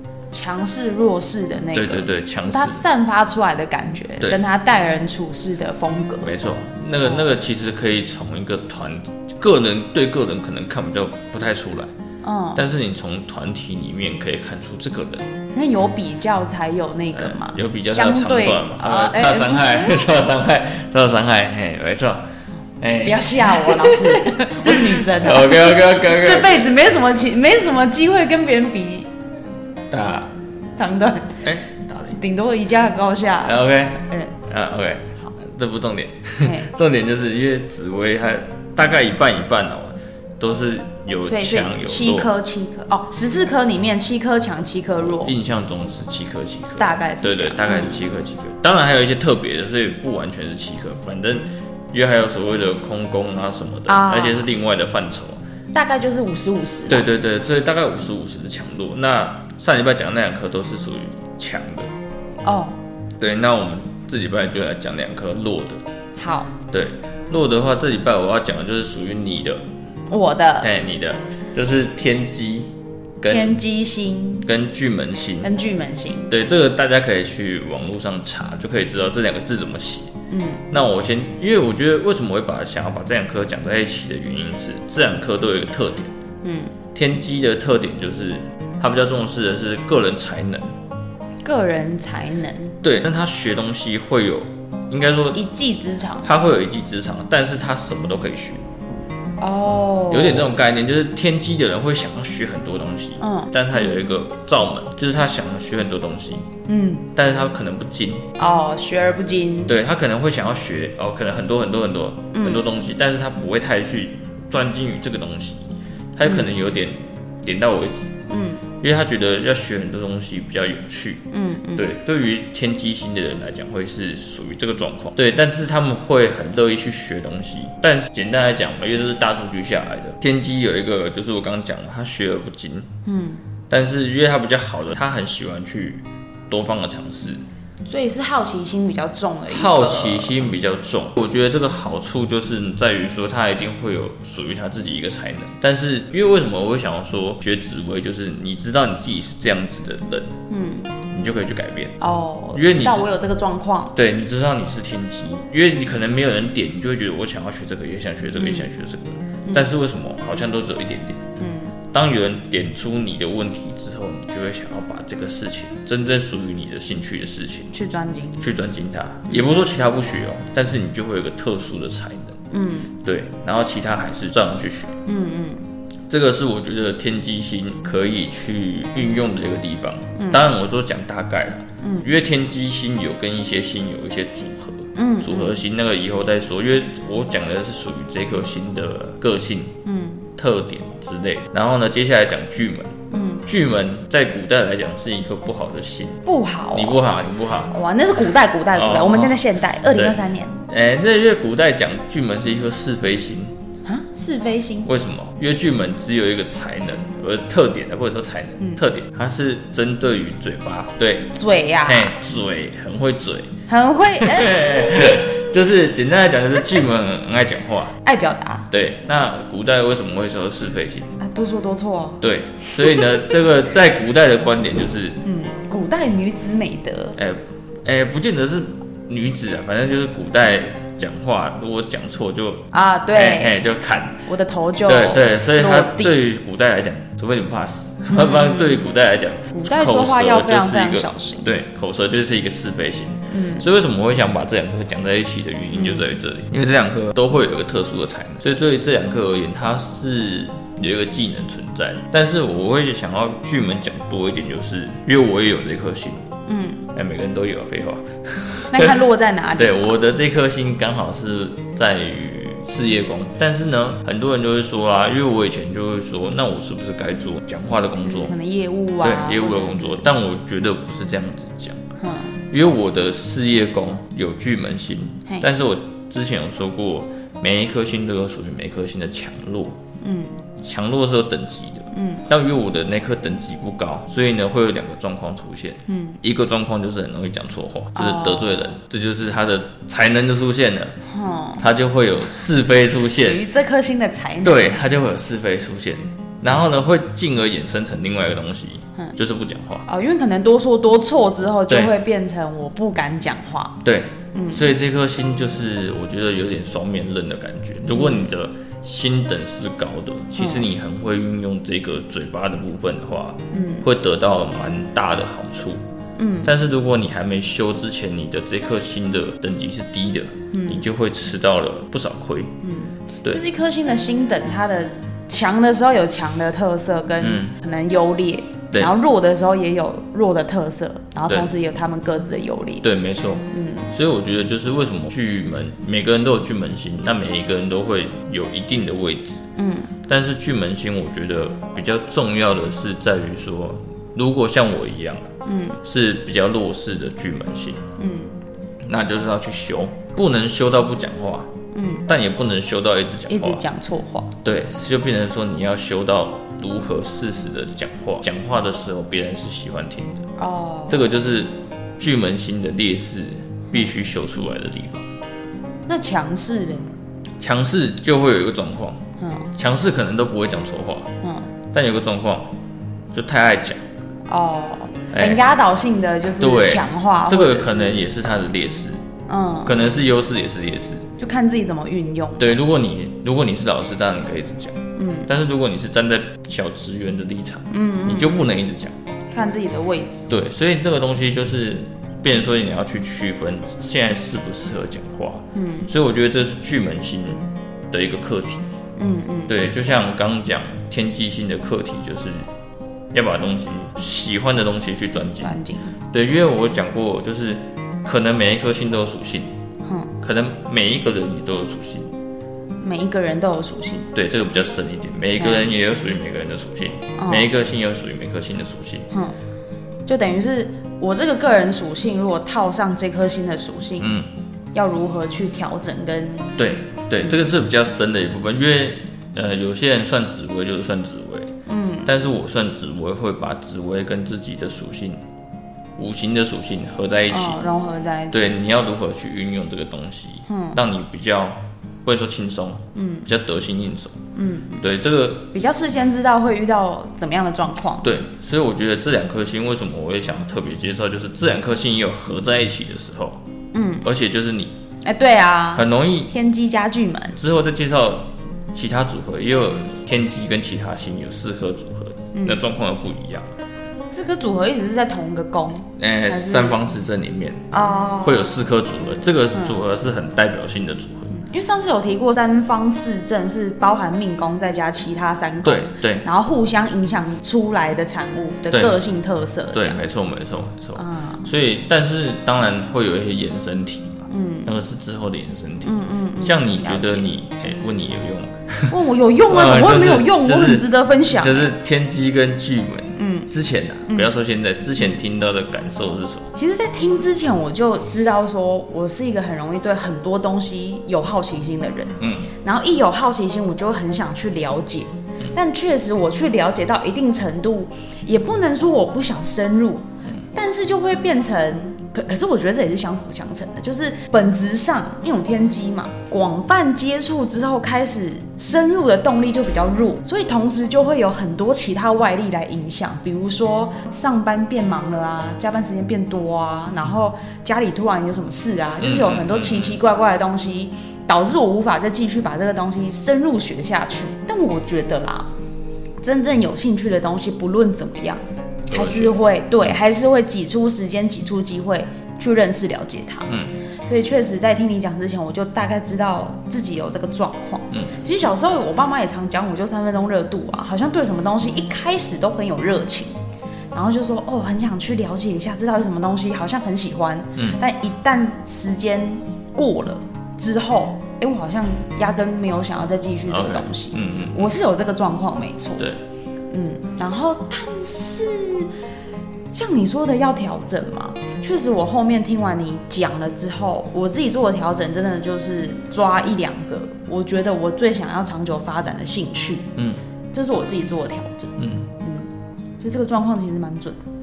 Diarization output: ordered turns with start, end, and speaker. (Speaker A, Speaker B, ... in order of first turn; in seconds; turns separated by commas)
Speaker A: 0.3-6.4, Speaker B: 1.7-2.8, Speaker B: 6.2-11.9, Speaker A: 12.2-12.6, Speaker B: 12.6-15.3, Speaker A: 15.5-20.1, Speaker B: 17.1-22.2, Speaker B: 22.8-26.8, Speaker A: 23.0-29.1, Speaker B: 29.9-30.3, Speaker A: 30.8-31.4, Speaker B: 31.4-32.2, Speaker A: 32.1-34.4, Speaker B: 33.5-42.3, Speaker A: 36.4-36.7, Speaker A: 41.3-45.4, Speaker B: 45.0-55.4, Speaker A: 46.8-48.0, Speaker A: 53.9-54.5, Speaker A: 55.7-57.1, Speaker B: 56.9-61.9, Speaker A: 62.4-62.8, Speaker B: 63.2-65.8, Speaker A: 66.2-66.5, Speaker B: 66.7-69.6, Speaker A: 70.1-70.7, Speaker B: 70.6-73.6, Speaker A: 73.3-74.5, Speaker B: 74.4-75.5, Speaker A: 75.4-76.3, Speaker B: 76.3-80.1, Speaker A: 80.3-80.6, Speaker B: 80.7-86.1, Speaker A: 86.4-86.8, Speaker B: 86.9-90.7, Speaker A: 91.4-92.8, Speaker B: 92.8-95.4, Speaker A: 95.3-96.3, Speaker B: 96.2-98.7, Speaker A: 99.4-100.5, Speaker B: 100.1-106.5, Speaker A: 103.2-104.0, Speaker A: 106.7-107.1, Speaker B: 107.2-108.3, Speaker A: 108.4-109.8, Speaker B: 109.7-115.7, Speaker A: 112.3-112.7, Speaker B: 116.2-118.1, Speaker A: 116.2-116.5, Speaker A: 118.3-118.6, Speaker B: 118.8-121.2, Speaker A: 121.3-121.9, Speaker B: 121.8-132.9, Speaker A: 133.1-133.4, Speaker B: 133.7-137.4, Speaker A: 137.8-140.4, Speaker B: 139.5-150.3, Speaker A: 150.5-150.9, Speaker B: 151.1-152.0, Speaker A: 152.0-153.9, Speaker B: 152.5-153.1, Speaker B: 153.9-161.2, Speaker A: 158.4-158.7, Speaker A: 161.4-161.7, Speaker B: 161.9-167.7, Speaker A: 167.7-168.4, Speaker B: 168.4-172.4, Speaker A: 172.5-172.9, Speaker B: 173.0-174.9, Speaker A: 175.1-175.7, Speaker B: 176.1-189.8, Speaker A: 180.2-180.5, Speaker A: 181.8-182.1, Speaker A: 184.9-185.6, Speaker A: 189.8-190.3, Speaker B: 190.4-192.9, Speaker A: 193.1-193.5, Speaker B: 193.5-196.2, Speaker A: 196.2-197.0, Speaker B: 196.7-197.7, Speaker A: 197.7-200.6, Speaker B: 198.7-200.2, Speaker B: 200.7-203.5, Speaker A: 203.8-204.9, Speaker B: 204.8-211.3, Speaker A: 211.3-212.2, Speaker B: 211.8-213.5, Speaker A: 213.7-215.5, Speaker B: 214.2-217.9, Speaker A: 218.0-218.7, Speaker B: 218.7-221.2, Speaker A: 221.2-223.3, Speaker B: 222.2-225.2, Speaker A: 225.2-227.2, Speaker B: 227.2-234.3, Speaker A: 232.7-233.6, Speaker A: 234.3-236.2, Speaker B: 234.8-256.3, Speaker A: 238.1-238.9, Speaker A: 239.5-241.5, Speaker A: 243.3-243.7, Speaker A: 245.8-246.1, Speaker A: 256.5-256.9, Speaker B: 256.9-259.0, Speaker A: 258.7-259.9, Speaker B: 259.6-268.4, Speaker A: 268.1-270.1, Speaker B: 269.0-271.8, Speaker A: 272.0-272.4, Speaker B: 272.5-279.8, Speaker A: 280.0-280.4, Speaker B: 280.6-290.9, Speaker A: 281.9-282.3, Speaker A: 285.9-286.2, Speaker A: 287.9-288.6, Speaker A: 291.1-291.7, Speaker B: 291.6-293.4, Speaker A: 293.1-294.8, Speaker B: 294.4-299.9, Speaker A: 299.9-303.8, Speaker B: 301.7-301.9, Speaker B: 303.8-315.8, Speaker A: 304.3-304.7, Speaker A: 307.9-308.3, Speaker A: 310.4-310.7, Speaker A: 313.5-313.9, Speaker A: 316.2-316.5, Speaker B: 316.4-322.5, Speaker A: 320.5-320.9, Speaker A: 322.6-332.9, Speaker B: 327.2-327.5, Speaker B: 332.8-339.4, Speaker A: 333.5-333.9, Speaker A: 339.6-339.9, Speaker B: 340.1-345.3, Speaker A: 345.5-345.8, Speaker B: 345.8-347.8, Speaker A: 348.0-348.4, Speaker B: 348.8-351.5, Speaker A: 351.7-352.1, Speaker B: 352.1-353.6, Speaker A: 353.3-354.3, Speaker B: 354.4-360.3, Speaker A: 360.4-361.1, Speaker B: 360.9-365.1, Speaker A: 365.9-367.0, Speaker B: 367.4-369.0, Speaker A: 369.2-369.5, Speaker B: 369.6-371.1, Speaker A: 371.2-371.5, Speaker B: 371.7-372.5, Speaker B: 373.1-373.8, Speaker A: 374.3-378.0, Speaker B: 375.1-375.4, Speaker B: 376.4-379.0, Speaker A: 379.3-380.0, Speaker B: 379.6-381.1, Speaker A: 381.2-382.6, Speaker B: 382.4-388.9, Speaker A: 385.0-385.3, Speaker A: 387.7-388.5, Speaker A: 389.3-390.3, Speaker B: 390.3-398.7, Speaker A: 395.6-395.9, Speaker A: 399.0-399.6, Speaker B: 399.5-402.5, Speaker B: 403.1-405.6, Speaker A: 405.4-406.0, Speaker B: 406.1-409.5, Speaker A: 409.9-410.1, Speaker B: 410.2-412.1, Speaker A: 412.8-414.1, Speaker B: 414.1-419.1, Speaker A: 415.4-415.7, Speaker A: 417.2-417.5, Speaker A: 419.1-419.4, Speaker A: 420.1-424.1, Speaker B: 424.0-424.3, Speaker A: 424.7-426.7, Speaker B: 426.6-431.5, Speaker A: 431.7-432.1, Speaker B: 432.1-435.2, Speaker B: 436.0-437.6, Speaker A: 437.3-438.5, Speaker B: 438.3-444.2, Speaker A: 440.5-440.8, Speaker A: 442.9-443.3, Speaker A: 444.4-444.9, Speaker B: 444.8-445.5, Speaker A: 445.5-448.1, Speaker B: 448.0-453.4, Speaker A: 453.7-454.1, Speaker B: 454.0-454.8, Speaker A: 455.0-457.4, Speaker B: 455.7-456.3, Speaker B: 457.4-463.5, Speaker A: 462.3-462.6, Speaker A: 464.1-466.8, Speaker B: 466.0-467.7, Speaker A: 467.7-468.5, Speaker B: 468.2-471.3, Speaker A: 471.3-480.0, Speaker B: 475.6-476.2, Speaker B: 478.7-479.0, Speaker B: 479.7-488.9, Speaker A: 480.9-481.5, Speaker A: 484.3-484.7, Speaker A: 485.8-487.3, Speaker A: 488.9-491.7, Speaker B: 489.5-496.5, Speaker A: 493.2-493.5, Speaker A: 496.6-535.5, Speaker B: 502.2-502.5, Speaker B: 529.0-530.0, Speaker A: 536.2-543.6, Speaker B: 538.9-539.4, Speaker A: 544.1-553.3, Speaker A: 553.9-566.1, Speaker B: 557.6-557.8, Speaker B: 563.5-564.7, Speaker A: 566.7-568.9, Speaker A: 569.7-579.9, Speaker A: 580.5-582.5, Speaker B: 581.8-582.1, Speaker A: 583.0-584.2